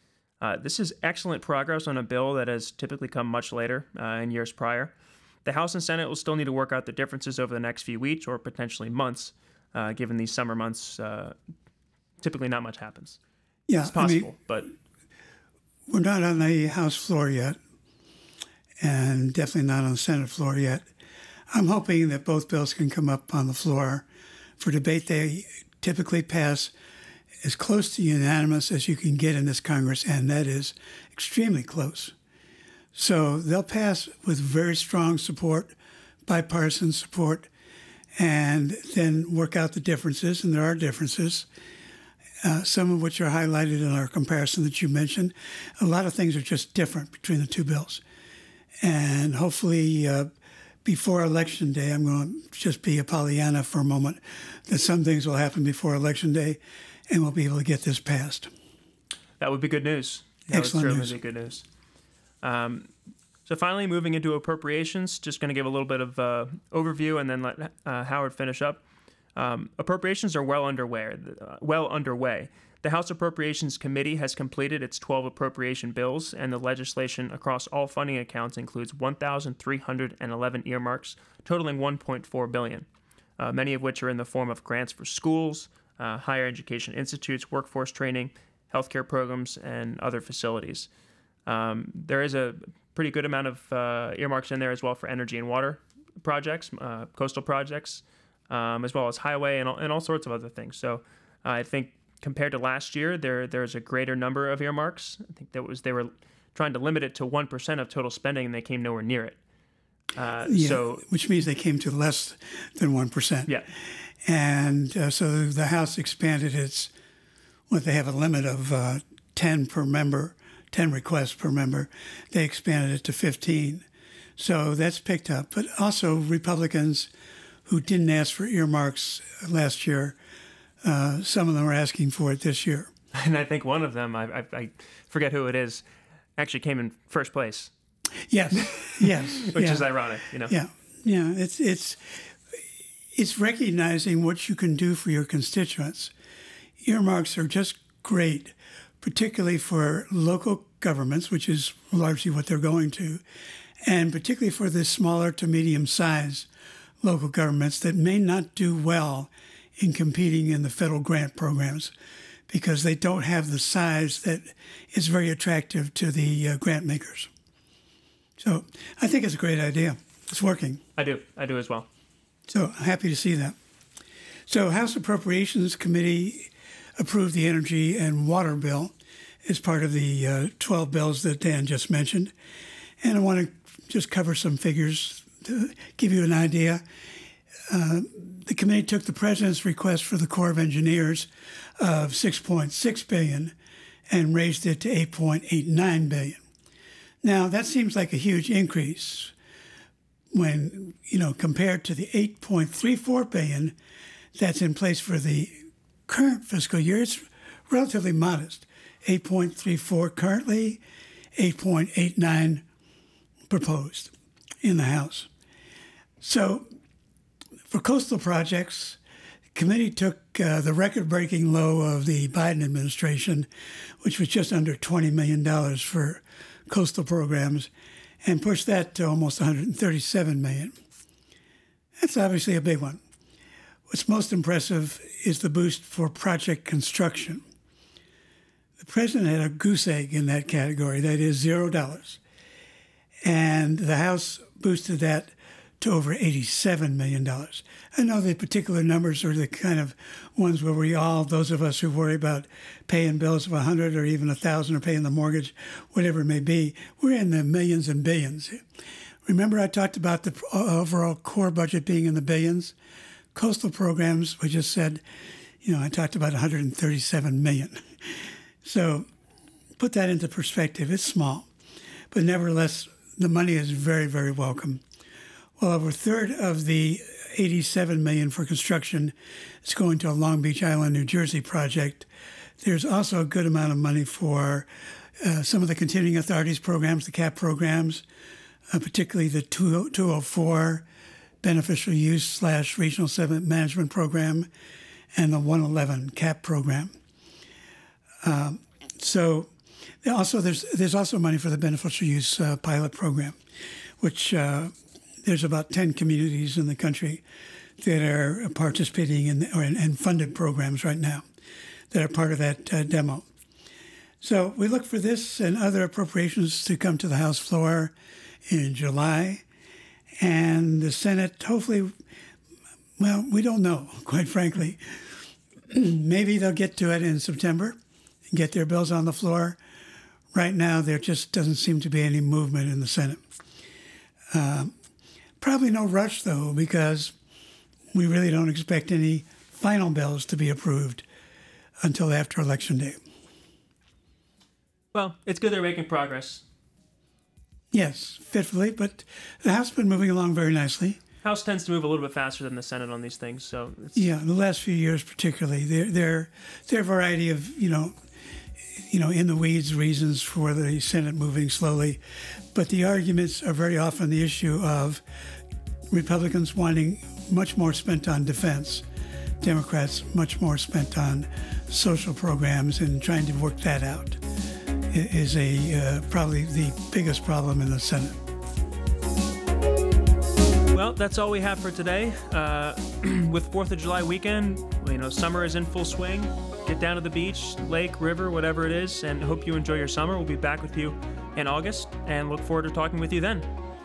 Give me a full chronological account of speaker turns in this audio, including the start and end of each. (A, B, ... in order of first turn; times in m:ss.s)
0:00.4-0:04.9 A
0:05.4-0:11.4 A
0:12.2-0:13.2 A
0:13.7-0:14.3 B
0:13.8-0:14.7 A
0:15.9-0:17.6 B
0:18.8-0:20.9 B
0:21.5-0:24.0 B
0:24.6-0:26.7 B
0:27.4-0:32.1 B
0:32.9-0:35.7 B
0:36.3-0:37.5 B
0:38.2-0:41.5 B
0:42.4-0:48.0 B
0:48.8-0:50.3 B
0:50.8-0:56.6 B
0:57.1-0:58.5 B
0:59.4-1:01.6 A
1:00.5-1:01.2 B
1:02.4-1:02.9 A
1:03.4-1:08.8 A
1:09.4-1:22.9 A
1:23.4-1:30.9 A
1:31.5-1:49.4 A
1:50.2-1:51.1 A
1:50.4-1:53.6 B
1:54.2-1:56.9 B
1:57.7-2:03.8 B
2:04.4-2:07.1 B
2:07.7-2:10.2 B
2:10.8-2:12.9 B
2:13.1-2:15.8 A
2:16.4-2:17.7 A
2:18.3-2:19.8 B
2:18.6-2:20.6 A
2:20.4-2:22.4 B
2:23.1-2:26.1 B
2:26.8-2:33.2 B
2:33.8-2:36.5 B
2:37.0-2:41.9 B
2:42.5-2:47.3 B
2:48.4-2:50.8 B
2:51.0-2:51.9 A
2:52.5-2:53.6 B
2:54.5-2:58.9 B
2:59.4-3:02.3 B
3:03.0-3:06.8 B
3:07.7-3:11.3 B
3:11.8-3:13.6 B
3:14.1-3:16.4 B
3:17.2-3:19.3 B
3:20.3-3:23.8 B
3:24.4-3:25.6 B
3:26.1-3:30.8 B
3:31.4-3:32.6 B
3:33.5-3:35.3 B
3:36.2-3:36.6 B
3:37.7-3:39.0 B
3:39.6-3:43.5 B
3:44.0-3:47.7 B
3:48.2-3:50.8 B
3:52.0-3:53.0 B
3:53.9-3:57.4 B
3:58.8-4:02.2 B
4:03.2-4:18.6 B
4:19.3-4:22.8 B
4:23.4-4:25.0 B
4:25.6-4:29.1 B
4:29.8-4:31.5 B
4:32.1-4:34.8 B
4:35.6-4:42.1 B
4:42.6-4:44.7 B
4:45.2-4:48.0 B
4:48.7-4:50.9 B
4:51.4-4:54.5 B
4:55.1-4:56.9 B
4:58.2-4:59.5 B
5:00.0-5:03.4 B
5:04.0-5:04.7 B
5:05.2-5:07.2 B
5:07.8-5:11.2 B
5:11.9-5:13.3 B
5:14.2-5:17.9 B
5:18.5-5:19.4 B
5:20.2-5:21.9 B
5:23.0-5:25.1 B
5:25.7-5:27.8 B
5:28.3-5:29.6 B
5:30.3-5:33.2 B
5:34.3-5:34.7 B
5:35.4-5:37.2 B
5:37.9-5:41.1 B
5:41.8-5:43.0 B
5:44.9-5:46.4 A
5:47.7-5:51.0 B
5:51.2-5:54.1 A
5:54.0-5:58.0 B
5:58.7-6:02.0 B
6:02.5-6:05.0 B
6:05.9-6:08.8 B
6:09.4-6:14.2 B
6:14.9-6:18.2 B
6:20.7-6:33.5 A